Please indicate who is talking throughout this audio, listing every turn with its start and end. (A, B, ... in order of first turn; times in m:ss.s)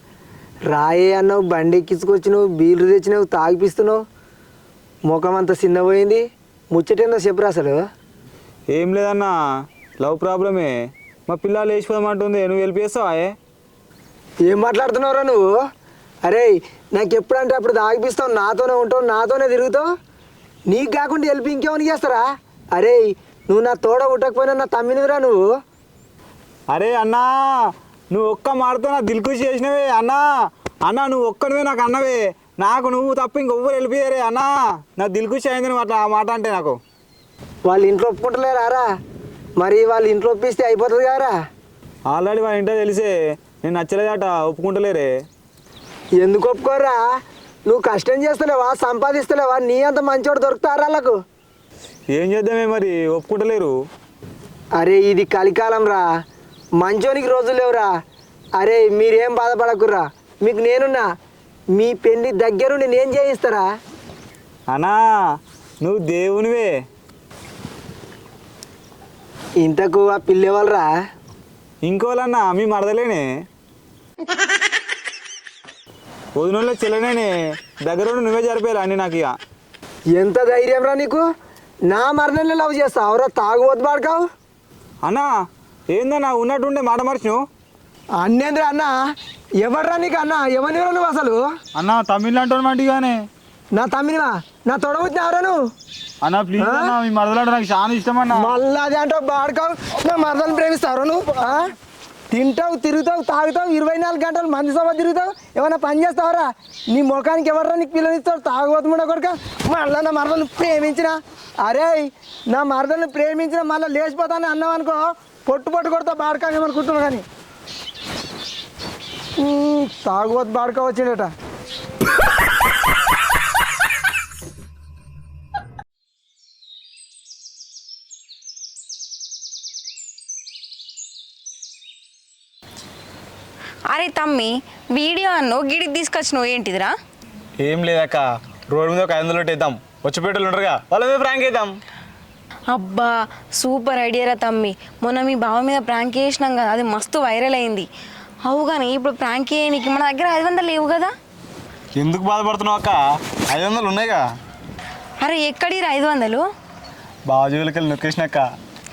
0:00.7-0:04.0 A
0:05.1-0:07.8 A
0:08.7-0:09.3 B
0:10.0-0:10.7 B
0:11.3-0:13.4 B
0:14.4-0:15.5 A
0:16.2-0:19.9 A
0:20.7-0:25.5 A
0:26.7-0:27.5 B
0:28.1-0:30.2 B
0:30.8-0:36.8 B
0:37.6-0:38.8 A
0:39.6-0:41.3 A
0:42.1-0:45.1 B
0:46.2-0:47.0 A
0:47.6-0:51.2 A
0:52.1-0:53.7 B
0:54.8-0:56.0 A
0:56.8-0:57.9 A
0:58.6-1:01.1 A
1:01.7-1:03.7 A
1:04.7-1:05.0 B
1:05.8-1:06.7 B
1:09.6-1:10.9 A
1:11.8-1:13.2 B
1:16.3-1:19.3 B
1:20.1-1:21.2 A
1:21.9-1:24.3 A
1:25.0-1:25.3 B
1:25.9-1:27.4 B
1:28.2-1:29.0 A
1:29.6-1:31.4 A
1:31.7-1:33.3 B
1:33.7-1:35.6 A
1:36.2-1:38.6 B
1:36.6-1:36.9 A
1:38.3-1:41.7 A
1:42.3-1:57.2 A
1:59.4-2:01.3 A
2:13.9-2:16.9 C
2:17.6-2:21.7 B
2:22.7-2:27.9 C
2:28.4-2:31.1 C
2:32.0-2:34.2 B
2:35.2-2:36.5 C
2:37.3-2:38.5 B